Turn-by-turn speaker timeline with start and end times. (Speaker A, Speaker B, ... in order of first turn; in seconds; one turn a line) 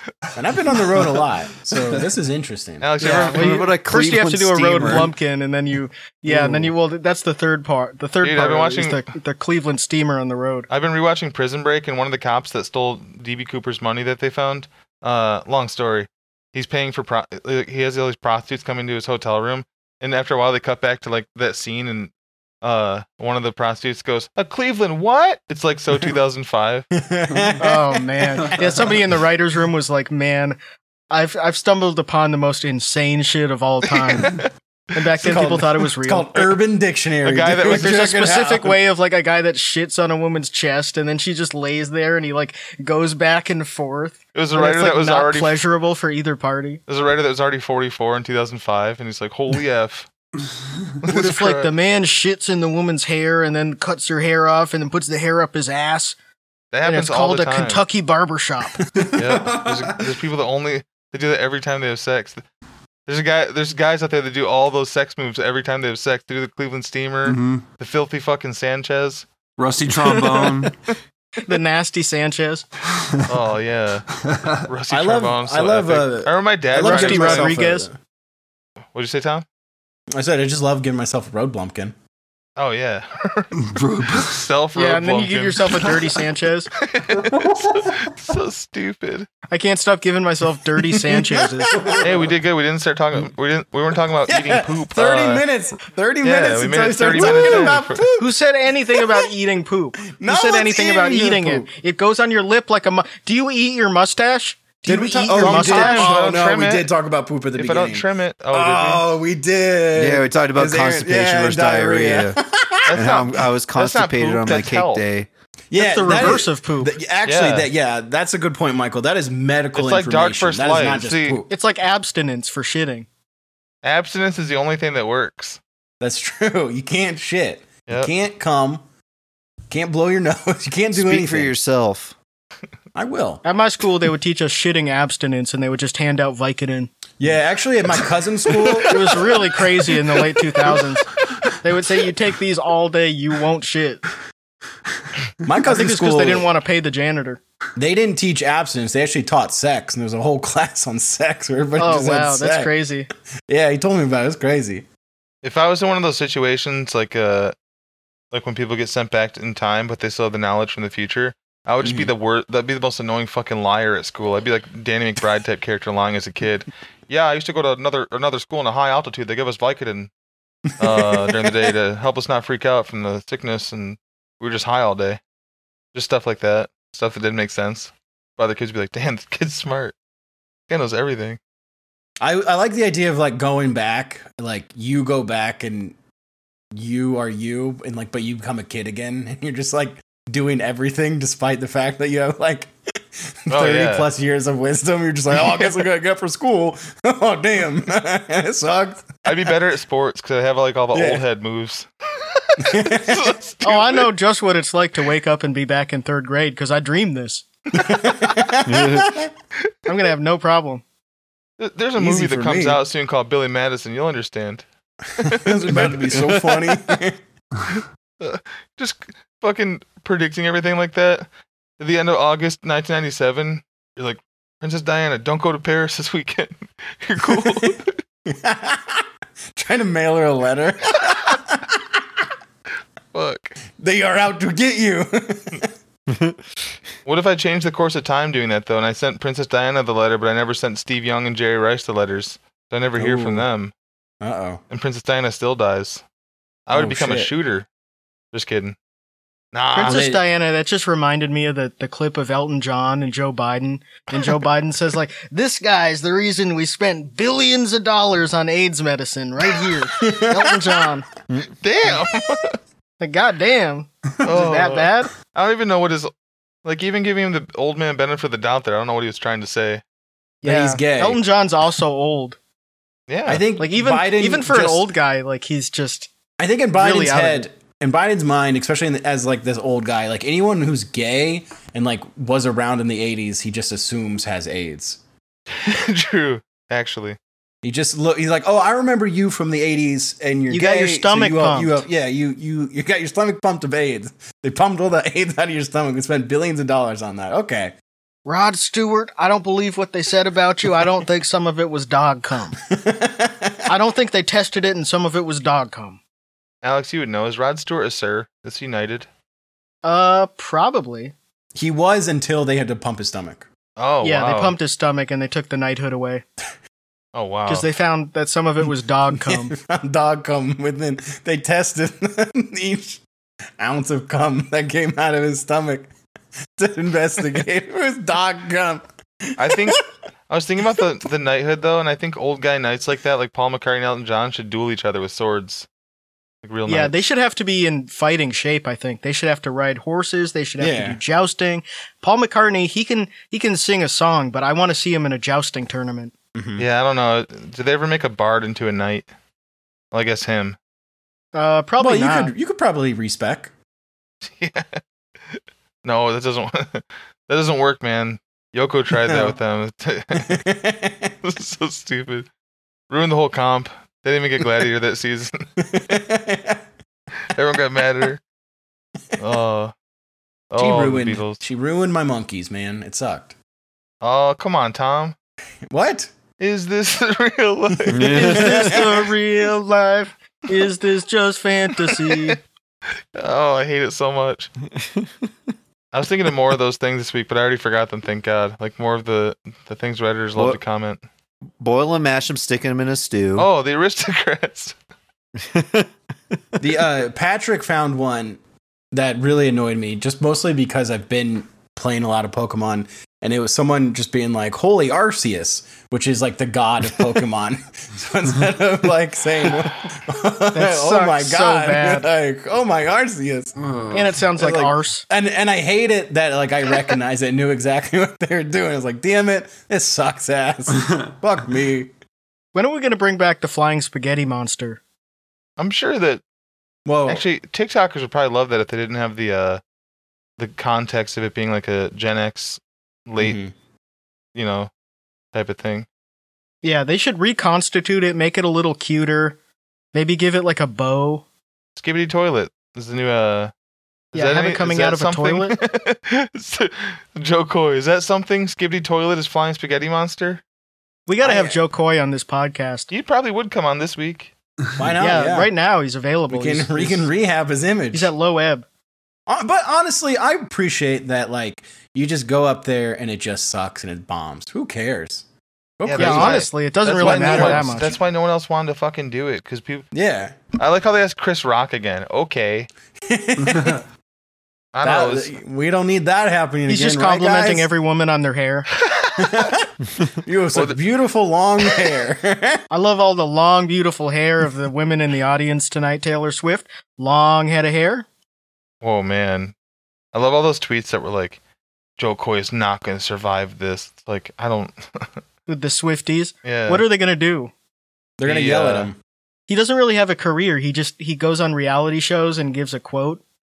Speaker A: 0.3-2.9
Speaker B: 2.8-3.7
Speaker C: 3.0-10.7
Speaker D: 3.1-5.1
Speaker A: 6.3-6.7
Speaker B: 8.2-9.0
Speaker B: 10.7-22.1
Speaker B: 22.6-26.9
Speaker A: 26.9-29.1
Speaker E: 27.3-27.6
Speaker C: 27.6-30.6
Speaker C: 31.1-34.4
Speaker B: 34.1-34.5
Speaker C: 34.9-36.5
Speaker A: 35.1-38.8
Speaker B: 37.2-38.1
Speaker C: 37.6-46.8
Speaker B: 44.3-45.6
Speaker B: 46.9-50.1
Speaker B: 51.0-51.7
Speaker C: 51.0-56.2
Speaker B: 56.7-57.8
Speaker C: 56.8-58.8
Speaker E: 59.0-60.1
Speaker B: 59.1-62.4
Speaker B: 63.1-69.2
Speaker E: 67.2-67.6
Speaker E: 69.6-70.7
Speaker C: 70.1-70.4
Speaker C: 71.4-72.7
Speaker E: 73.0-73.3
Speaker B: 73.3-77.6
Speaker E: 74.1-74.7
Speaker A: 74.9-78.0
Speaker C: 76.8-77.9
Speaker B: 78.9-79.4
Speaker A: 80.1-81.9
Speaker B: 82.6-86.1
Speaker E: 83.5-84.5
Speaker C: 84.7-86.7
Speaker B: 86.7-89.3
Speaker E: 87.2-88.0
Speaker C: 89.5-91.8
Speaker A: 91.0-92.3
Speaker B: 92.0-95.4
Speaker A: 94.3-98.3
Speaker B: 96.2-98.0
Speaker C: 97.2-97.7
Speaker C: 98.2-106.1
Speaker A: 98.9-99.2
Speaker A: 100.1-101.7
Speaker A: 104.8-112.9
Speaker B: 105.3-106.9
Speaker B: 107.5-109.0
Speaker D: 109.9-115.3
Speaker B: 112.8-115.0
Speaker A: 115.7-121.5
Speaker C: 115.7-117.0
Speaker B: 117.2-117.7
Speaker B: 119.7-121.4
Speaker C: 121.5-123.1
Speaker B: 123.8-125.6
Speaker A: 126.0-128.8
Speaker A: 129.7-131.5
Speaker D: 130.9-132.1
Speaker A: 132.9-133.4
Speaker C: 133.4-136.9
Speaker A: 137.2-139.3
Speaker C: 138.8-141.0
Speaker C: 141.6-144.0
Speaker A: 145.4-146.5
Speaker C: 145.6-147.4
Speaker A: 147.8-152.7
Speaker C: 151.8-153.1
Speaker A: 153.5-154.8
Speaker B: 155.4-157.5
Speaker B: 158.3-170.1
Speaker A: 161.8-162.1
Speaker B: 170.8-175.2
Speaker A: 170.8-171.5
Speaker B: 175.9-179.9
Speaker B: 180.7-181.4
Speaker A: 182.2-185.9
Speaker A: 186.7-199.2
Speaker B: 193.5-194.1
Speaker B: 195.4-195.7
Speaker B: 199.2-204.1
Speaker A: 200.9-201.2
Speaker A: 202.6-203.4
Speaker C: 203.6-207.4
Speaker A: 207.7-209.3
Speaker C: 209.8-210.8
Speaker B: 211.6-214.6
Speaker A: 212.0-212.8
Speaker B: 215.2-216.6
Speaker A: 215.2-217.2
Speaker B: 218.2-221.2
Speaker B: 221.8-228.0
Speaker A: 227.3-232.0
Speaker B: 233.1-233.5
Speaker A: 233.8-235.7
Speaker B: 237.1-243.7
Speaker A: 243.0-243.4
Speaker A: 244.2-244.6
Speaker B: 244.7-246.0
Speaker B: 246.7-247.7
Speaker A: 246.7-247.3
Speaker B: 248.3-248.8
Speaker B: 249.5-250.0
Speaker C: 249.7-261.1
Speaker A: 249.8-250.2
Speaker A: 260.0-260.6
Speaker B: 261.6-262.6
Speaker C: 263.0-265.1
Speaker B: 264.2-266.1
Speaker B: 266.6-269.8
Speaker C: 270.4-272.4
Speaker A: 270.4-271.2
Speaker B: 273.1-273.4
Speaker A: 273.3-274.9
Speaker C: 273.6-276.1
Speaker A: 276.4-285.0
Speaker C: 276.7-277.5
Speaker B: 285.5-287.2
Speaker A: 287.6-297.7
Speaker C: 290.5-291.8
Speaker C: 298.2-302.6
Speaker A: 302.7-303.7
Speaker C: 303.7-306.0
Speaker B: 306.6-309.1
Speaker C: 309.8-311.1
Speaker A: 311.5-313.4
Speaker B: 313.8-314.6
Speaker C: 314.0-316.2
Speaker B: 317.1-317.7
Speaker C: 317.5-319.5
Speaker A: 319.1-323.0
Speaker A: 323.6-325.9
Speaker A: 326.6-329.8
Speaker B: 329.4-335.6
Speaker B: 336.4-337.0
Speaker C: 336.7-346.1
Speaker A: 340.6-341.0
Speaker A: 346.3-346.6
Speaker B: 346.6-349.1
Speaker B: 349.9-350.6
Speaker C: 351.3-352.3
Speaker A: 351.8-353.5
Speaker B: 354.2-354.8
Speaker B: 355.8-360.4
Speaker A: 359.0-359.3
Speaker A: 360.2-361.1
Speaker B: 361.2-362.3
Speaker B: 362.9-365.4
Speaker A: 365.6-366.6
Speaker B: 367.3-368.2
Speaker B: 369.2-369.7
Speaker B: 370.5-371.4
Speaker A: 370.6-373.3
Speaker B: 374.0-375.1
Speaker A: 375.7-376.1
Speaker B: 376.4-378.8
Speaker A: 377.8-379.0
Speaker D: 377.9-378.6
Speaker C: 378.0-382.4
Speaker B: 383.1-384.5
Speaker B: 385.9-391.0
Speaker D: 391.6-393.5
Speaker B: 393.4-394.7
Speaker D: 395.5-395.9
Speaker A: 396.6-398.4
Speaker A: 398.9-413.6
Speaker C: 410.5-412.1
Speaker E: 413.6-414.1
Speaker C: 413.9-415.0
Speaker A: 414.4-421.9
Speaker C: 422.5-424.8
Speaker B: 425.6-426.2
Speaker A: 426.8-427.2
Speaker B: 427.1-429.6
Speaker B: 430.4-433.4
Speaker A: 433.2-433.5
Speaker B: 434.3-434.7
Speaker B: 435.3-435.9
Speaker C: 436.6-439.4
Speaker C: 439.9-441.2
Speaker B: 441.8-443.5
Speaker B: 444.1-450.4
Speaker C: 444.1-445.5
Speaker C: 451.1-452.9
Speaker A: 451.2-451.6
Speaker B: 452.9-454.3
Speaker A: 454.8-455.5
Speaker C: 455.0-457.0
Speaker A: 456.3-458.1
Speaker C: 457.9-458.6
Speaker A: 459.3-465.2
Speaker A: 465.8-467.9
Speaker B: 465.8-469.9
Speaker C: 466.0-467.9
Speaker A: 469.9-470.4
Speaker B: 470.5-472.7
Speaker A: 473.0-473.8
Speaker B: 474.7-475.3
Speaker A: 474.8-477.7
Speaker C: 476.7-478.7
Speaker B: 478.8-479.5
Speaker A: 479.2-479.7
Speaker A: 480.2-482.6
Speaker B: 480.5-480.8
Speaker C: 482.7-488.1
Speaker B: 488.8-489.5
Speaker B: 490.1-491.4
Speaker B: 492.0-495.1
Speaker C: 495.5-497.5
Speaker B: 496.4-496.8
Speaker A: 498.2-499.0
Speaker B: 498.2-498.9
Speaker C: 499.5-503.2